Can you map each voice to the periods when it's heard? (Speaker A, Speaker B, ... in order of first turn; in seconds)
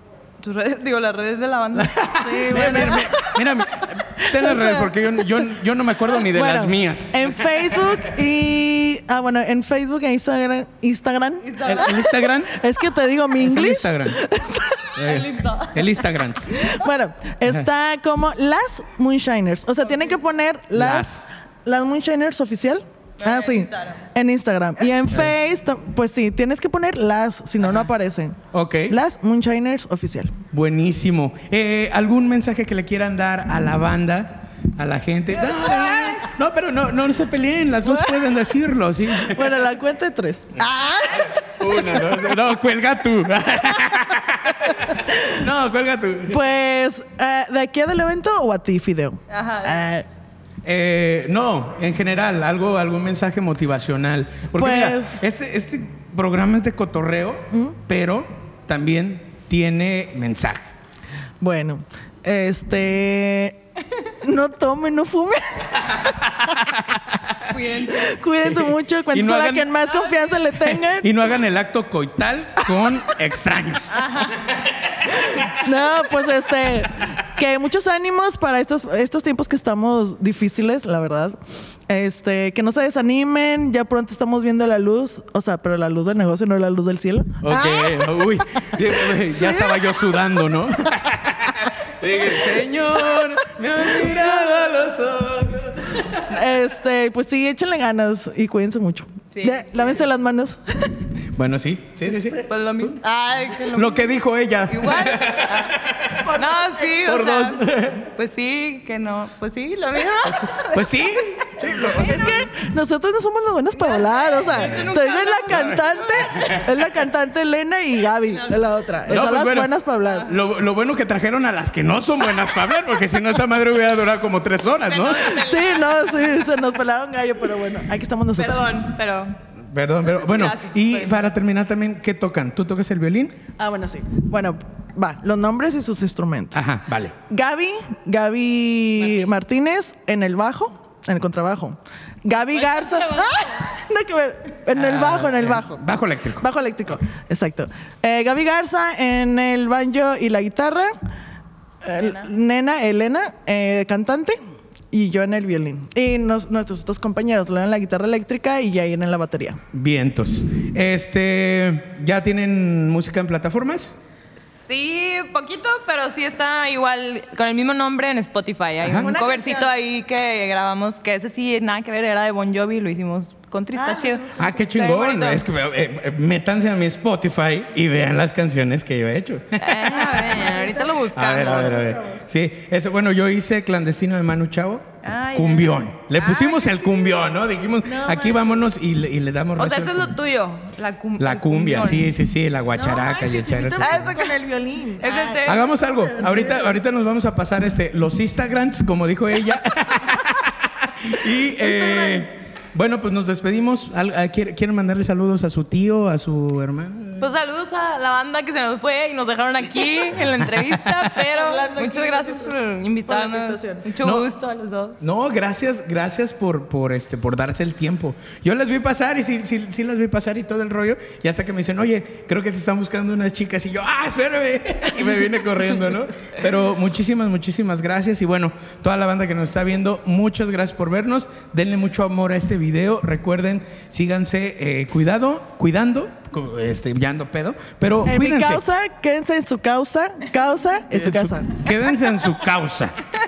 Speaker A: 0.4-3.1, 11.4-12.0, 15.0-16.1, 23.2-24.0, 35.3-36.2, 49.3-49.8, 67.5-68.1, 69.8-70.4, 73.9-74.4, 99.3-99.7, 102.4-105.7, 106.3-110.8, 111.7-112.5, 113.7-116.6, 118.3-118.7, 124.9-126.3, 128.4-129.4, 130.1-131.3, 142.5-143.5, 152.0-152.3, 164.6-175.5, 179.6-181.8, 185.0-186.8, 189.6-192.1, 193.8-194.3, 195.0-195.7, 207.2-215.0
Speaker B: 1.8-7.7, 11.6-12.5, 13.4-14.2, 15.0-16.6, 20.7-21.3, 28.5-29.0, 30.5-39.6, 41.1-46.5, 50.6-60.7, 66.4-67.2, 68.4-69.8, 70.6-74.1, 87.4-96.4, 101.3-102.9, 103.7-106.2, 107.0-108.1, 110.7-112.4, 114.6-114.8, 115.5-115.8, 119.1-119.7, 120.2-125.3, 129.7-133.3, 136.5-137.2, 144.7-146.5, 159.7-163.9, 168.8-169.1, 174.4-180.2, 181.1-190.2, 191.2-194.2, 195.5-207.3, 210.4-211.1, 214.0-214.3, 215.0-238.6, 240.9-242.9
Speaker C: 2.2-3.3, 4.2-5.3, 6.2-15.0, 16.5-28.4, 28.9-30.3, 37.8-38.4, 39.1-42.2, 44.7-45.3, 46.3-50.1, 54.5-55.2, 57.5-57.8, 61.4-63.6, 64.2-66.3, 67.8-71.1, 75.3-81.3, 81.9-88.2, 88.8-89.9, 96.3-101.0, 106.1-107.5, 111.9-120.3, 125.2-128.7, 133.6-136.7, 137.3-145.8, 146.3-150.9, 151.8-154.4, 154.9-159.6, 169.0-169.7, 173.8-174.7, 179.9-182.2, 187.8-188.7, 192.7-196.7, 201.5-202.3, 211.2-213.9, 238.1-241.6